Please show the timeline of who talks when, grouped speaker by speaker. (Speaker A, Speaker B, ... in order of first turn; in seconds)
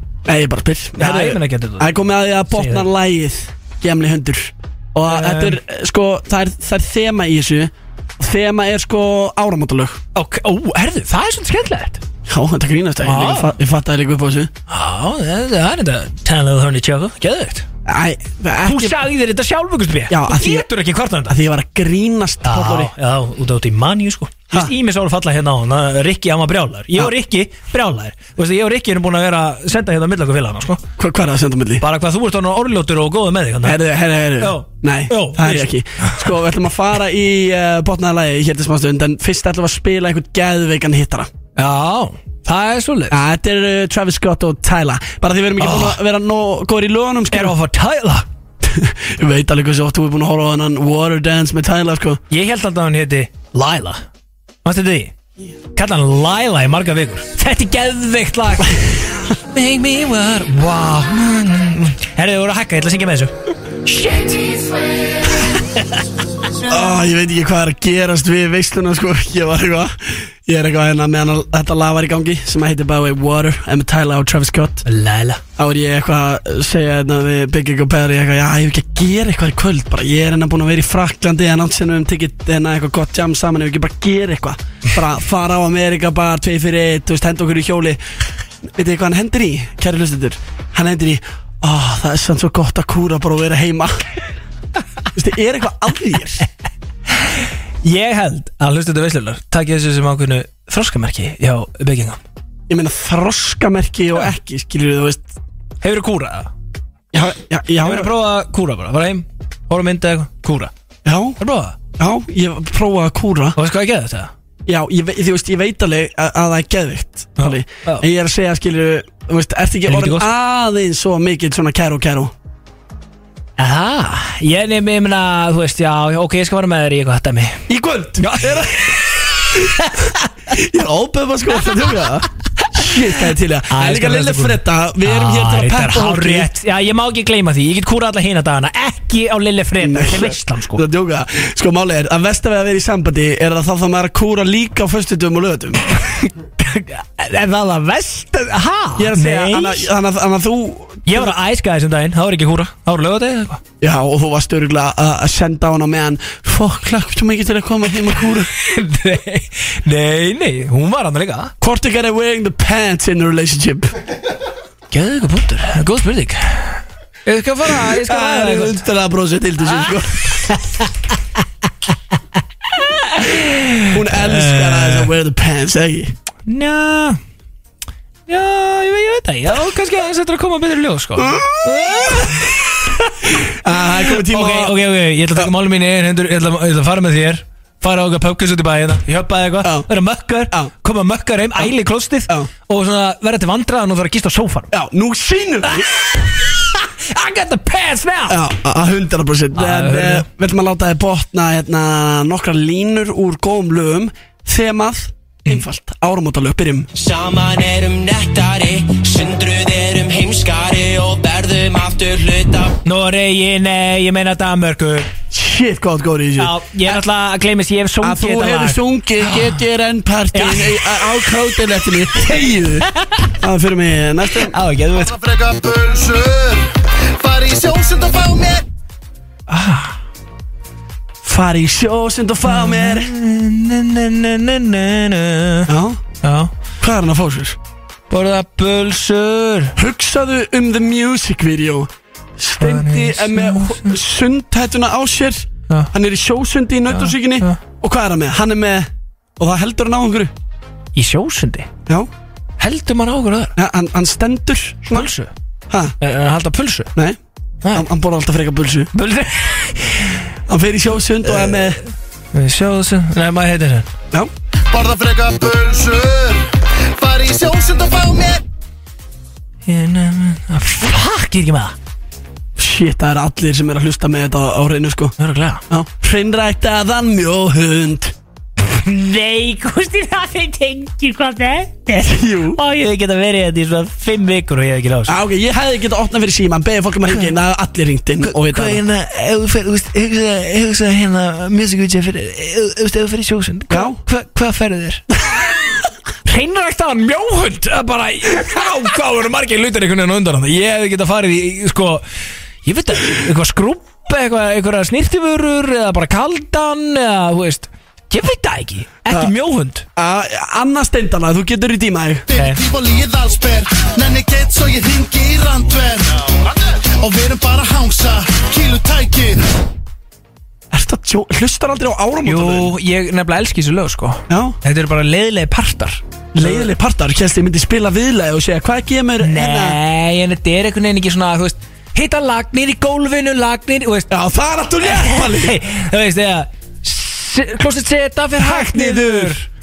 Speaker A: 0.2-10.0, 12.3-14.5, 17.8-19.0, 20.1-20.7, 21.3-22.9, 31.0-31.8, 33.6-41.3, 43.1-47.5, 48.6-52.2, 66.6-74.8, 75.6-88.0, 88.7-94.0, 95.1-96.4, 102.7-105.3, 107.1-108.1, 111.0-111.4, 111.9-113.6, 114.7-122.3, 127.7-129.0, 130.5-136.5, 139.8-145.8, 149.0-151.3, 153.8-158.5, 161.6-163.9, 167.7-170.5, 173.9-176.1, 181.2-182.3, 183.5-184.8, 189.6-189.9, 194.7-195.9, 198.3-206.9, 215.3-216.9, 218.0-222.9, 223.4-224.5, 231.2-233.1, 235.7-236.0, 236.8-237.6, 239.8-250.3, 253.6-255.1, 255.7-255.9, 257.7-258.9, 260.5-261.8, 272.6-275.1, 275.7-278.1, 282.0-282.6, 285.1-288.8, 293.7-294.0, 309.9-312.3, 320.7-322.7, 324.3-324.6, 326.3-329.8, 334.1-335.6, 338.4-339.3
Speaker B: 1.0-1.9, 2.5-2.9, 5.0-5.6, 10.1-12.0, 13.0-13.6, 14.7-17.6, 18.6-21.4, 22.4-30.8, 31.8-33.8, 34.4-36.3, 41.5-43.2, 45.6-46.0, 47.3-48.3, 52.3-54.0, 54.6-55.1, 55.7-63.3, 63.8-64.6, 65.5-65.9, 74.8-75.4, 97.8-102.2, 105.8-106.5, 107.8-110.7, 111.4-111.8, 113.5-114.3, 117.4-118.0, 119.9-120.3, 123.6-127.6, 128.2-130.3, 132.6-133.1, 133.7-140.8, 146.4-149.9, 151.1-153.6, 158.5-161.5, 164.9-168.8, 170.3-170.9, 172.7-175.1, 176.4-177.2, 178.3-183.3, 183.9-194.7, 195.8-198.4, 199.5-200.3, 212.8-215.1, 216.4-219.5, 220.3-220.9, 223.0-223.3, 224.4-225.1, 229.5-230.0, 232.4-235.7, 236.2-236.5, 238.1-239.7, 242.6-243.9, 246.9-247.6, 250.9-251.7, 252.6-253.5, 254.9-255.3, 256.0-256.9, 258.9-260.2, 261.3-261.7, 262.3-263.9, 269.6-271.7, 275.2-275.6, 278.7-285.2, 288.2-295.0, 296.2-302.0, 302.6-309.9, 312.3-312.6, 322.2-326.7, 329.2-334.1, 334.8-339.5
Speaker C: 206.9-212.8
Speaker D: 224.9-228.6, 264.7-268.4, 312.3-319.5